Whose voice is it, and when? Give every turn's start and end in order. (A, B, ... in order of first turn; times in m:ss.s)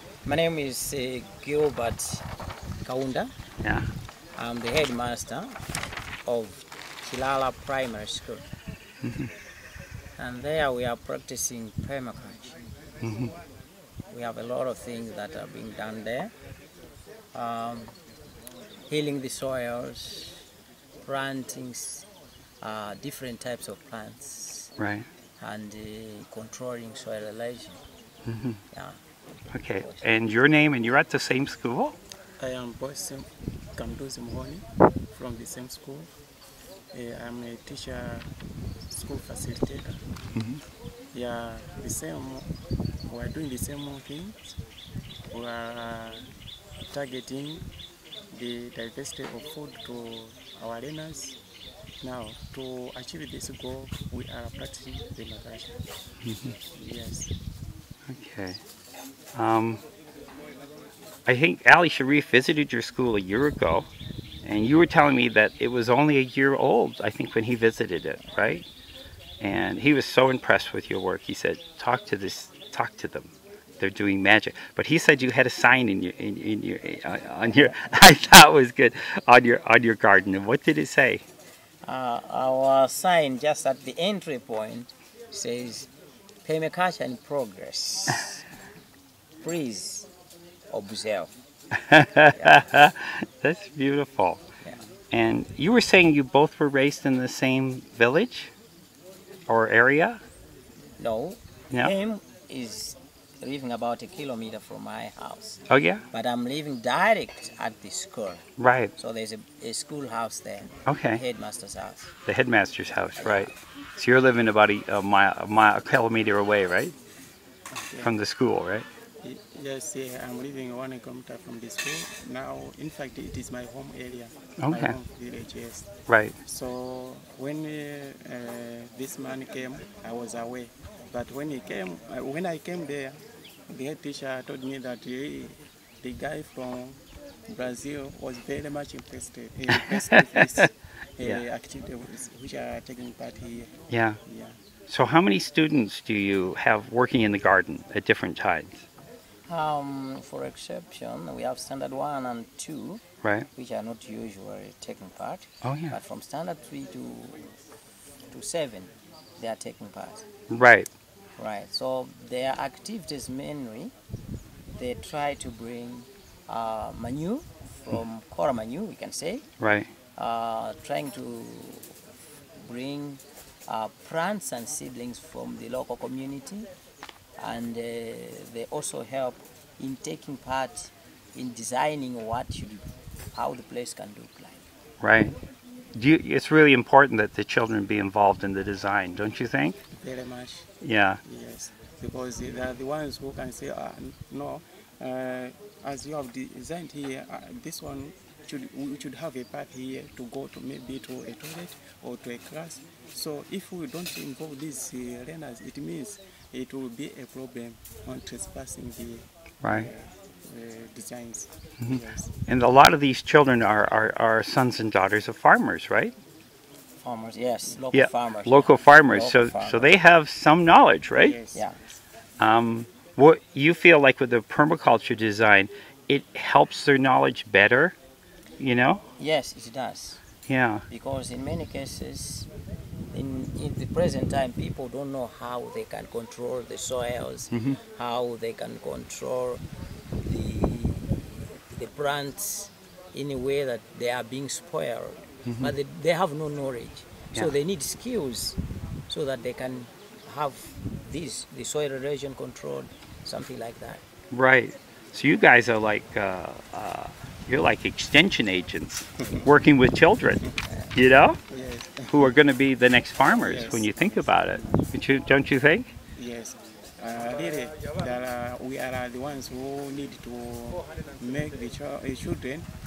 0:00.2-0:02.2 A
0:02.8-0:03.3 A
0:04.4-0:05.5 A
0:06.2-0:08.5 A
0:09.0-0:09.3 B
0:10.2-0:12.6 A
0:13.0-0:13.3 B
0:14.1-0:16.3 A
0:17.3-0:17.9 A
0:18.9-0:20.4 A
0:21.0-0:22.0 A
0:22.6-0:24.7 A
0:24.8-0:25.1 B
0:25.4-0:27.8 A
0:28.3-0:28.6 B
0:28.7-0:29.0 A
0:29.5-0:32.0 B
0:29.7-0:30.0 A
0:32.4-0:36.1 C
0:36.9-0:38.3 C
0:38.9-0:40.0 C
0:40.3-0:40.6 B
0:41.1-0:42.5 C
0:43.1-0:44.5 C
0:45.3-0:46.2 C
0:46.9-0:47.6 C
0:48.3-0:51.4 C
0:52.0-0:55.8 C
0:56.2-0:56.6 B
0:56.7-0:57.3 C
0:58.1-0:58.6 B
0:59.3-0:59.8 B
1:01.3-1:03.9 B
1:04.4-1:08.6 B
1:09.4-1:21.2 B
1:17.5-1:17.9 A
1:21.8-1:25.9 A
1:26.4-1:28.4 A
1:29.4-1:30.1 A
1:30.7-1:31.3 A
1:31.9-1:34.4 B
1:32.3-1:32.7 A
1:35.1-1:38.5 B
1:39.5-1:40.2 B
1:41.0-1:45.6 A
1:45.7-1:46.0 B
1:46.1-1:48.4 A
1:48.6-1:48.9 B
1:49.0-1:52.1 A
1:50.9-1:51.2 B
1:52.3-1:56.9 B
1:53.2-1:53.5 A
1:57.8-1:58.1 C
1:58.0-1:58.8 B
1:59.2-2:05.9 C
2:04.6-2:05.0 B
2:06.1-2:06.3 B
2:06.4-2:23.7 C
2:23.9-2:24.2 B
2:24.2-2:24.6 C
2:24.9-2:28.8 B
2:29.5-2:33.0 A
2:33.6-2:37.5 A
2:35.6-2:35.9 B
2:38.3-2:40.2 A
2:40.5-2:40.9 B
2:41.4-2:43.9 A
2:44.8-2:49.4 A
2:49.6-2:49.9 B
2:50.2-2:51.9 A
2:52.6-2:56.7 A
2:57.4-3:04.6 A
3:05.0-3:05.4 B
3:05.9-3:09.8 B
3:10.0-3:10.7 C
3:10.8-3:11.2 B
3:11.2-3:32.3 C
3:29.6-3:29.9 B
3:31.8-3:36.1 B
3:37.0-3:39.9 A
3:37.9-3:41.4 B
3:41.2-3:41.7 C
3:42.4-3:48.0 B
3:48.6-3:49.0 B
3:49.2-3:50.2 A
3:50.5-3:50.8 B
3:50.9-3:52.5 A
3:53.1-3:59.6 A
4:00.2-4:01.2 A
4:01.7-4:08.6 A
4:05.4-4:05.7 B
4:09.1-4:14.0 A
4:14.3-4:20.4 B
4:20.6-4:20.9 A
4:20.9-4:21.4 B
4:21.5-4:22.3 C
4:22.1-4:25.9 B
4:23.4-4:24.8 C
4:26.2-4:32.7 C